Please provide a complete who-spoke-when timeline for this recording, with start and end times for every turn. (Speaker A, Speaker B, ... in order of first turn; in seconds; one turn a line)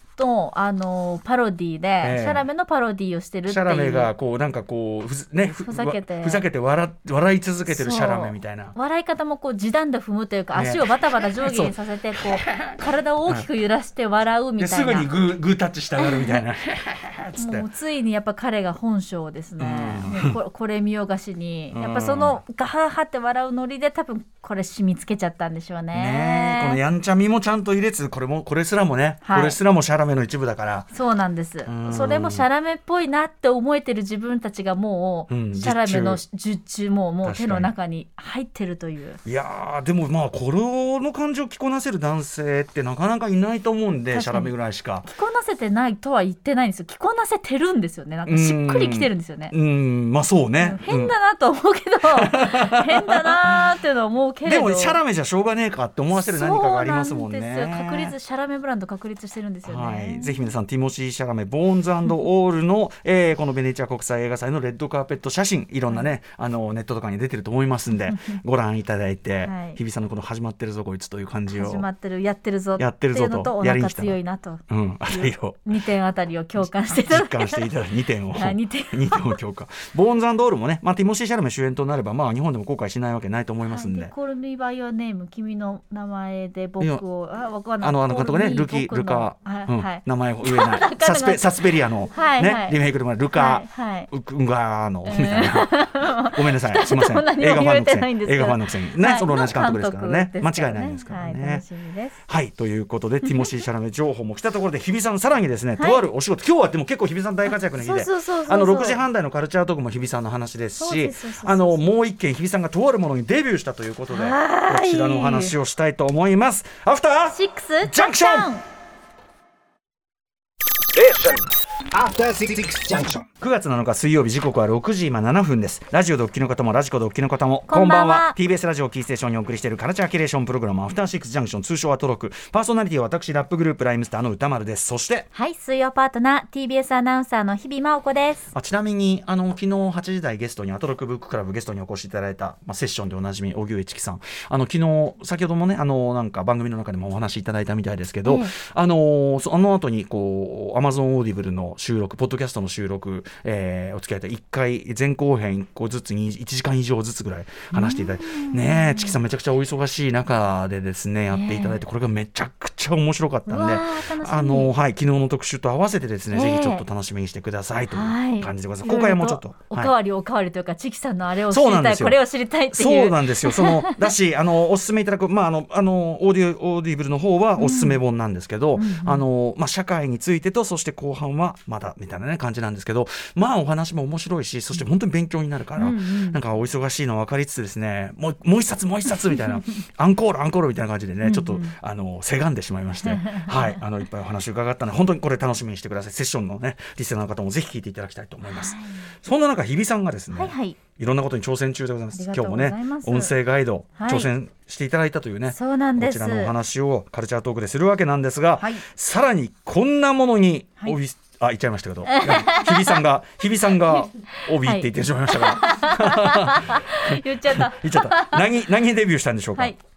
Speaker A: 0.2-4.1
Speaker B: 2.0-2.5
Speaker B: 3.5-8.7
Speaker A: 5.6-6.4
Speaker A: 7.7-15.1
Speaker B: 10.5-13.5
Speaker B: 14.6-17.7
Speaker A: 16.0-16.4
Speaker A: 17.4-26.8
Speaker B: 19.6-20.4
Speaker B: 21.7-22.4
Speaker B: 25.9-30.9
Speaker A: 29.2-29.6
Speaker A: 30.9-39.2
Speaker B: 31.6-32.5
Speaker B: 35.3-36.2
Speaker B: 37.2-37.7
Speaker B: 39.2-45.1
Speaker A: 44.1-44.5
Speaker A: 45.0-49.5
Speaker B: 48.3-51.1
Speaker A: 50.6-55.0
Speaker B: 52.1-53.7
Speaker B: 54.5-58.1
Speaker A: 56.1-60.5
Speaker B: 59.6-71.9
Speaker A: 68.1-68.4
Speaker A: 69.4-69.8
Speaker A: 71.5-77.7
Speaker B: 72.8-74.2
Speaker B: 74.7-75.6
Speaker B: 76.9-84.1
Speaker A: 78.3-79.4
Speaker A: 83.7-92.8
Speaker B: 87.8-101.6
Speaker A: 93.3-94.1
Speaker A: 95.0-102.2
Speaker B: 102.3-118.5
Speaker A: 103.2-103.5
Speaker A: 107.5-109.0
Speaker A: 110.8-111.8
Speaker A: 114.1-115.6
Speaker A: 117.3-118.6
Speaker C: 121.0-123.3
Speaker B: 123.4-135.3
Speaker A: 127.7-128.4
Speaker A: 135.3-138.5
Speaker B: 138.5-169.9
Speaker A: 148.2-148.5
Speaker A: 157.7-159.2
Speaker A: 161.3-161.8
Speaker A: 163.5-164.7
Speaker A: 166.3-166.8
Speaker A: 167.9-174.1
Speaker B: 171.5-172.2
Speaker B: 172.7-219.7
Speaker A: 177.6-178.0
Speaker A: 178.8-179.2
Speaker A: 185.8-186.4
Speaker A: 191.2-191.7
Speaker A: 193.0-193.8
Speaker A: 198.5-199.1
Speaker A: 200.3-200.8
Speaker A: 202.1-203.3
Speaker A: 204.0-204.3
Speaker A: 205.5-206.5
Speaker A: 212.1-213.0
Speaker A: 213.9-218.4